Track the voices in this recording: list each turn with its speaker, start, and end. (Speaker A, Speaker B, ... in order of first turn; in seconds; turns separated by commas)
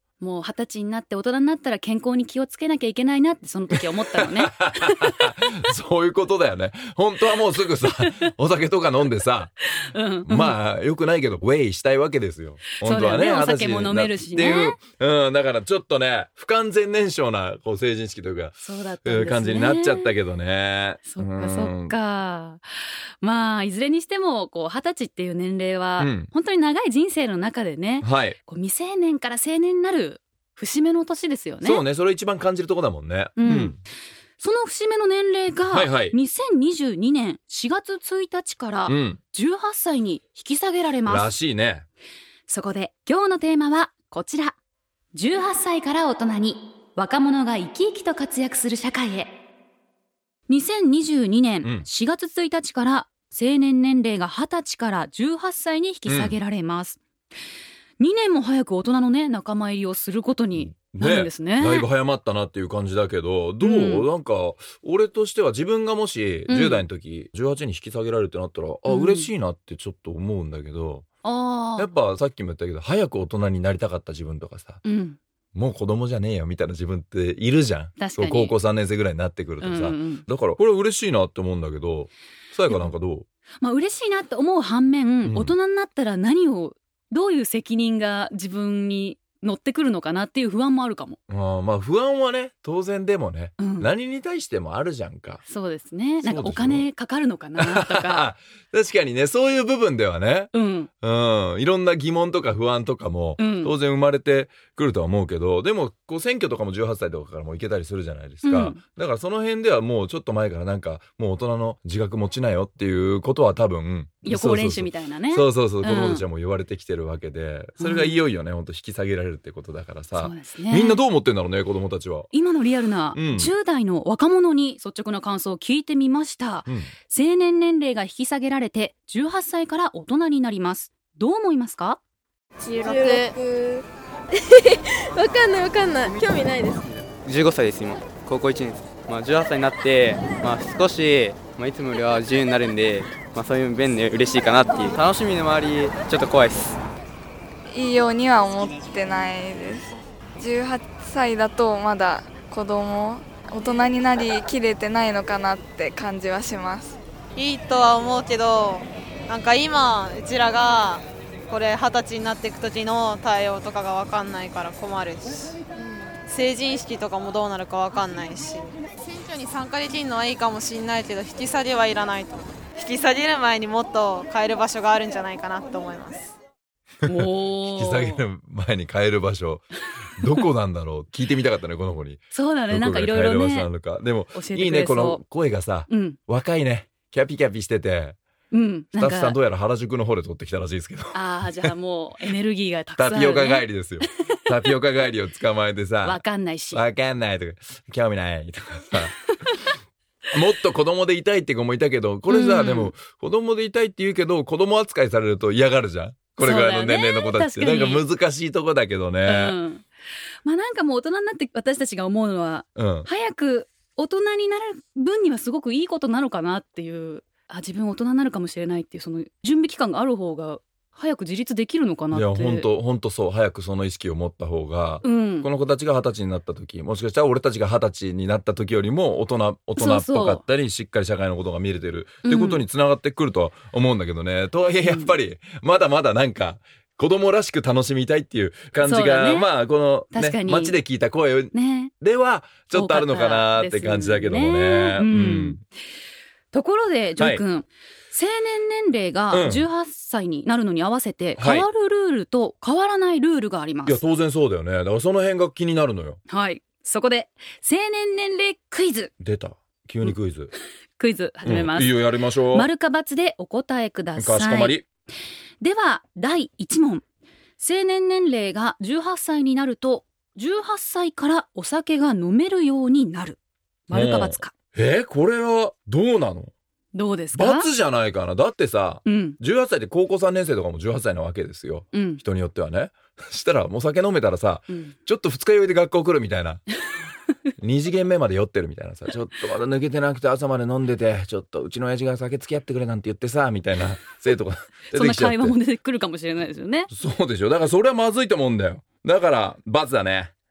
Speaker A: 0.2-5.1, Speaker B: 4.2-9.5, Speaker A: 9.8-10.6, Speaker B: 10.2-21.9, Speaker A: 12.8-14.8, Speaker A: 18.6-20.1, Speaker A: 21.0-22.6, Speaker A: 23.2-31.8, Speaker B: 26.0-26.3, Speaker B: 28.0-28.4, Speaker B: 31.6-33.8, Speaker A: 33.4-33.8, Speaker A: 34.4-41.3, Speaker B: 35.7-36.1, Speaker B: 38.9-39.2, Speaker B: 41.0-41.9, Speaker A: 42.5-44.6, Speaker A: 45.1-49.3, Speaker A: 50.5-57.0, Speaker B: 56.0-56.4, Speaker A: 58.0-61.9, Speaker B: 60.6-71.1, Speaker A: 63.6-64.1, Speaker A: 66.5-66.8, Speaker A: 68.9-69.3, Speaker A: 71.2-71.9, Speaker B: 71.8-74.8, Speaker A: 74.8-75.2, Speaker B: 75.5-83.2, Speaker A: 78.0-78.5, Speaker A: 79.6-80.2, Speaker A: 83.6-91.2, Speaker B: 85.2-85.5, Speaker B: 91.3-95.4, Speaker A: 93.6-93.9, Speaker A: 95.5-98.3, Speaker B: 96.2-96.8, Speaker B: 97.6-122.3, Speaker A: 100.5-100.9, Speaker A: 103.4-103.7, Speaker A: 108.4-108.8, Speaker A: 114.2-116.2, Speaker A: 117.8-118.2, Speaker A: 120.1-121.0, Speaker A: 122.3-132.0, Speaker B: 123.1-123.5, Speaker C: 132.6-133.4, Speaker D: 132.8-133.2, Speaker D: 135.3-136.8, Speaker C: 135.9-136.5, Speaker E: 136.9-146.8, Speaker F: 147.7-157.0, Speaker C: 157.3-176.3, Speaker A: 177.1-178.2, Speaker B: 177.6-188.2, Speaker A: 182.3-183.7, Speaker A: 184.3-185.2, Speaker A: 185.9-186.2, Speaker A: 188.5-189.4, Speaker B: 189.0-191.3, Speaker A: 191.1-193.7, Speaker B: 193.0-199.3, Speaker A: 196.0-196.8, Speaker B: 200.3-209.6, Speaker A: 202.3-202.9, Speaker A: 206.4-208.0, Speaker A: 209.2-209.8, Speaker A: 210.4-222.7, Speaker B: 212.8-213.1, Speaker B: 222.1-245.6, Speaker A: 225.0-225.5, Speaker A: 229.8-230.4, Speaker A: 232.2-232.6, Speaker A: 234.8-235.1, Speaker A: 238.8-239.5, Speaker A: 240.1-240.8, Speaker A: 241.5-241.9, Speaker A: 242.7-245.6, Speaker A: 246.5-254.0, Speaker B: 247.2-247.4, Speaker B: 249.3-249.7, Speaker B: 251.4-251.7, Speaker B: 253.8-256.2, Speaker A: 256.3-259.1, Speaker B: 259.2-260.5, Speaker A: 261.0-264.8, Speaker B: 261.4-262.7, Speaker B: 264.1-264.8, Speaker A: 265.6-267.0, Speaker A: 267.6-273.4, Speaker A: 273.9-274.5, Speaker B: 273.9-276.5, Speaker A: 276.9-277.7, Speaker B: 277.3-286.6, Speaker A: 279.0-279.4, Speaker A: 281.9-282.2, Speaker A: 284.7-284.9, Speaker B: 287.6-295.6, Speaker A: 294.9-296.9, Speaker B: 296.9-300.3